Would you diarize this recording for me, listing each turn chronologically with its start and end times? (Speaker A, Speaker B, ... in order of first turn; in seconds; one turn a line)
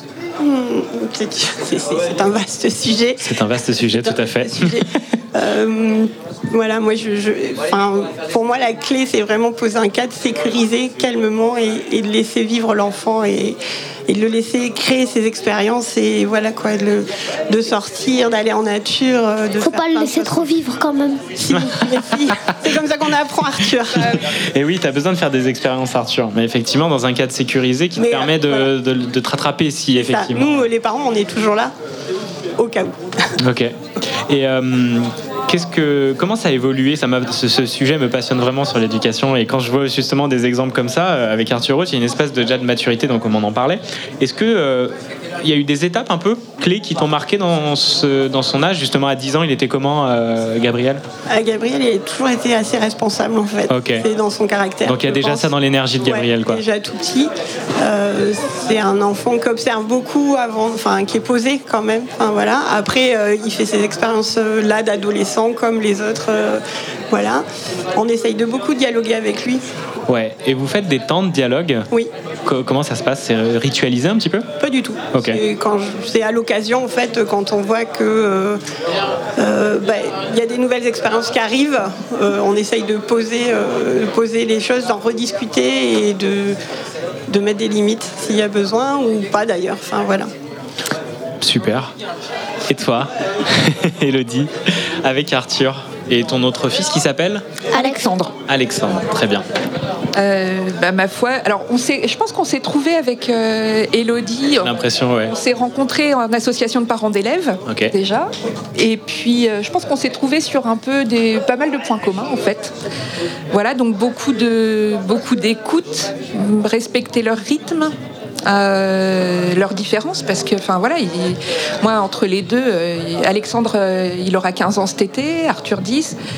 Speaker A: 0.4-20.5
Speaker B: 3.2-4.8
Speaker C: 19.6-21.3
Speaker A: 21.4-24.2
Speaker B: 22.1-22.4
Speaker B: 23.9-30.6
Speaker A: 28.0-28.7
Speaker A: 30.0-31.7
Speaker A: 32.6-33.0
Speaker B: 33.4-51.0
Speaker A: 51.3-55.5
Speaker B: 53.7-54.1
Speaker B: 54.9-56.6
Speaker A: 56.0-69.6
Speaker B: 70.1-71.9
Speaker B: 72.5-74.5
Speaker A: 74.6-78.6
Speaker B: 75.1-75.4
Speaker A: 79.4-86.6
Speaker A: 87.3-90.3
Speaker B: 91.4-91.9
Speaker B: 92.7-97.5
Speaker C: 97.7-98.1
Speaker D: 97.7-98.4
Speaker B: 98.5-99.5
Speaker D: 100.1-112.7
Speaker B: 104.6-105.3
Speaker B: 107.7-107.9
Speaker D: 113.5-118.0
Speaker D: 118.5-126.2